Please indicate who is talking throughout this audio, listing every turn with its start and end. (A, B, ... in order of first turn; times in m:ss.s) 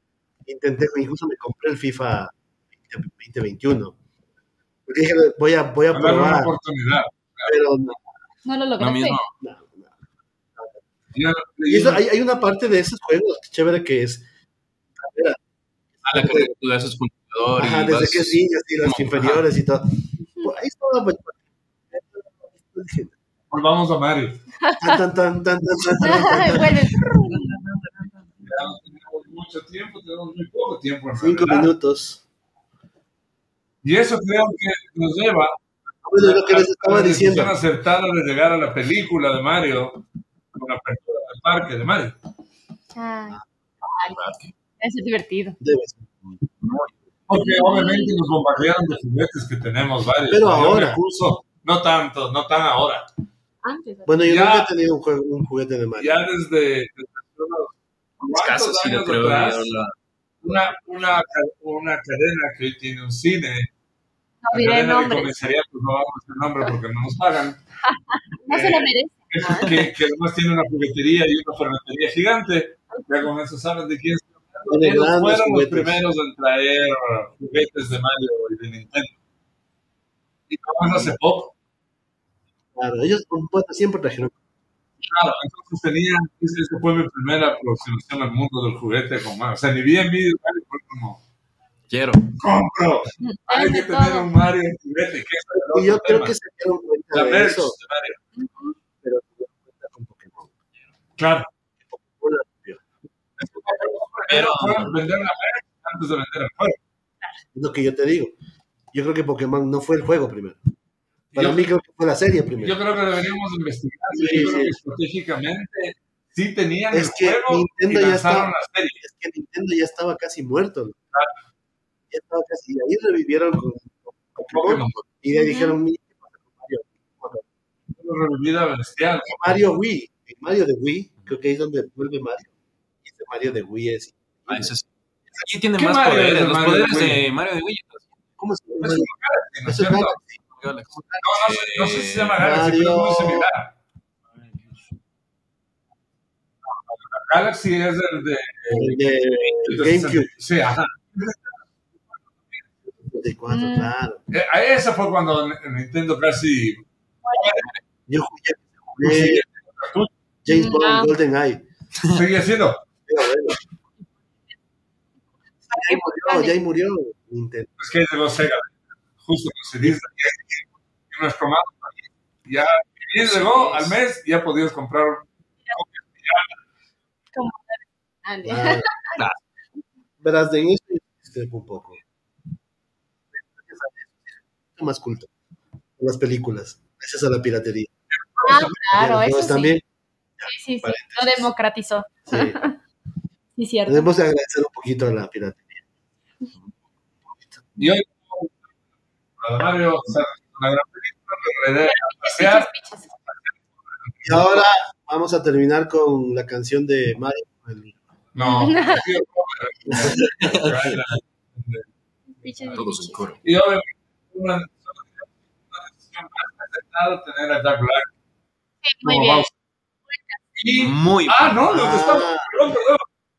0:00.5-0:04.0 A
0:04.9-0:06.5 A
0:05.9-0:07.6 B
0:07.5-0:08.0 A
0:08.4-0:09.2 C
0:08.8-0:09.3 D
0:09.4-0:10.0 A
0:11.1-0:12.0 B
0:11.7-0:14.2 A
0:15.0-0:15.4 A
0:16.0-0:16.5 A
0:16.0-0:19.4 D
0:17.6-0:23.2 A
0:23.5-0:24.4 B
0:24.6-0:25.0 C
0:24.8-0:27.0 A
0:26.0-0:27.6 C
0:28.4-0:31.8 B
0:31.2-0:32.2 A
0:33.8-0:35.6 B
0:36.0-0:37.6 A
0:36.2-0:40.0 B
0:40.5-0:42.2 B
0:42.9-0:44.2 C
0:44.1-0:44.5 D
0:44.8-0:45.6 C
0:45.6-0:46.5 A
0:47.3-0:53.1 B
0:47.3-0:48.2 C
0:50.3-0:51.0 A
0:53.6-0:54.2 C
0:54.1-0:56.2 A
0:54.2-0:54.7 B
0:56.0-0:59.7 B
0:58.2-1:00.0 D
1:00.4-1:03.7 B
1:04.4-1:05.4 C
1:04.5-1:07.6 B
1:07.9-1:09.9 C
1:08.5-1:19.2 B
1:12.9-1:13.3 C
1:14.7-1:16.0 A
1:20.5-1:21.5 B
1:22.8-1:24.4 A
1:25.0-1:31.2 B
1:31.9-1:32.3 D
1:32.4-1:36.4 B
1:33.2-1:34.3 C
1:35.5-1:37.8 A
1:37.1-1:38.2 B
1:38.4-1:38.8 C
1:39.0-1:40.5 A
1:41.2-1:41.5 B
1:41.8-1:42.8 A
1:43.4-1:46.8 B
1:44.3-1:44.9 D
1:47.6-1:48.3 A
1:48.9-1:50.6 A
1:51.3-1:51.7 B
1:51.4-1:52.8 A
1:52.6-1:59.0 B
1:54.1-1:54.8 A
1:56.9-2:01.0 A
2:02.1-2:07.5 A
2:04.5-2:05.0 B
2:05.3-2:05.8 C
2:07.9-2:09.6 B
2:09.3-2:12.5 A
2:13.0-2:14.7 A
2:14.5-2:14.9 D
2:15.4-2:18.1 D
2:15.8-2:17.2 B
2:18.4-2:19.1 A
2:18.8-2:20.2 B
2:19.6-2:21.4 A
2:20.5-2:22.4 D
2:21.2-2:23.7 B
2:22.4-2:23.5 A
2:26.6-2:31.6 B
2:28.7-2:30.3 A
2:32.4-2:32.6 B
2:32.9-2:34.2 A
2:33.5-2:33.9 C
2:34.3-2:37.7 B
2:37.2-2:37.6 C
2:38.1-2:39.4 A
2:39.0-2:40.1 B
2:40.4-2:41.6 A
2:40.5-2:41.1 C
2:42.1-2:42.8 B
2:43.1-2:43.6 A
2:45.7-2:47.7 A
2:45.7-2:46.6 C
2:47.8-2:56.6 B
2:53.2-2:53.9 D
2:57.3-2:59.2 C
2:58.4-2:58.9 A
3:00.2-3:02.0 A
3:03.4-3:05.3 A
3:06.0-3:07.9 A
3:08.1-3:08.8 B
3:08.4-3:09.8 C
3:08.6-3:09.8 A
3:10.4-3:11.5 A
3:10.4-3:12.8 C
3:12.3-3:12.6 A
3:13.6-3:14.1 C
3:13.9-3:15.8 A
3:17.3-3:17.6 A
3:17.8-3:18.6 B
3:19.4-3:22.7 B
3:21.8-3:23.1 C
3:23.3-3:24.6 B
3:24.2-3:28.0 A
3:28.4-3:31.9 B
3:28.4-3:29.1 C
3:29.9-3:30.2 A
3:30.1-3:31.0 D
3:32.3-3:33.3 C
3:32.7-3:33.4 D
3:33.4-3:38.1 B
3:38.8-3:39.5 C
3:39.0-3:39.5 B
3:40.1-3:40.4 C
3:40.6-3:43.0 B
3:40.8-3:41.6 D
3:41.7-3:42.5 A